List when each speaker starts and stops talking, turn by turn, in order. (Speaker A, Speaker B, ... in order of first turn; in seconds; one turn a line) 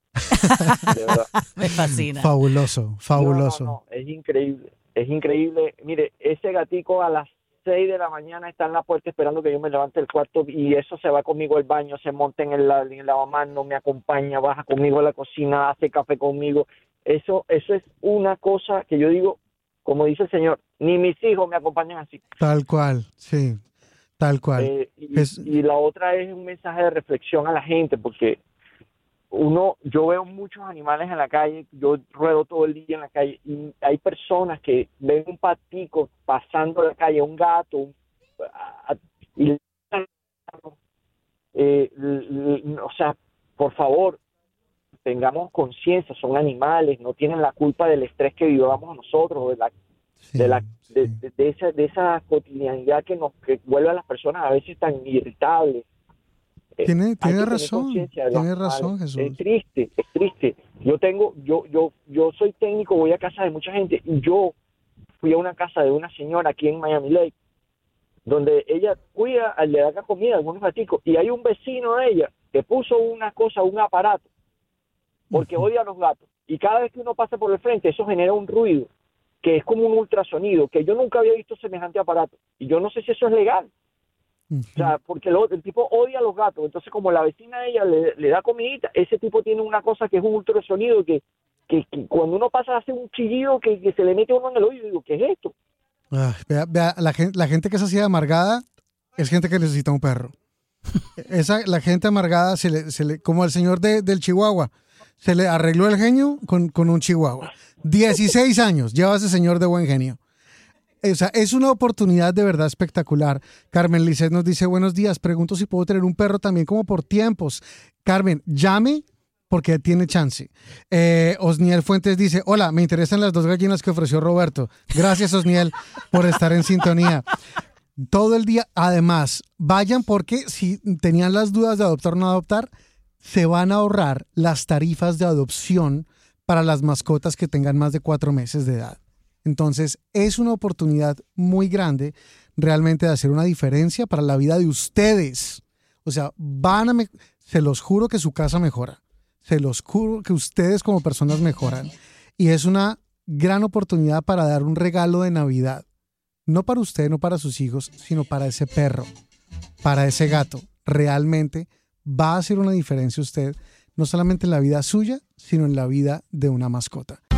Speaker A: 0.4-2.3
Speaker B: 0.5-1.0
Speaker C: 0.8-1.3
Speaker B: 1.9-3.8
Speaker C: 3.2-22.2
Speaker B: 22.4-23.6
Speaker B: 24.2-25.5
Speaker C: 24.6-28.4
Speaker C: 29.3-37.9
Speaker C: 38.6-40.8
Speaker C: 41.5-44.2
Speaker C: 45.0-49.7
Speaker B: 50.3-51.2
Speaker C: 50.4-55.8
Speaker C: 56.8-64.5
Speaker B: 56.9-59.4
Speaker C: 65.2-67.3
Speaker C: 68.3-74.3
Speaker B: 75.3-75.7
Speaker C: 75.3-78.9
Speaker C: 79.4-83.7
Speaker B: 84.5-84.9
Speaker C: 84.8-95.5
Speaker B: 96.1-98.7
Speaker B: 99.2-100.3
Speaker B: 101.2-110.2
Speaker B: 111.0-127.3
Speaker B: 128.0-155.8
Speaker B: 156.5-159.1
Speaker B: 159.8-167.2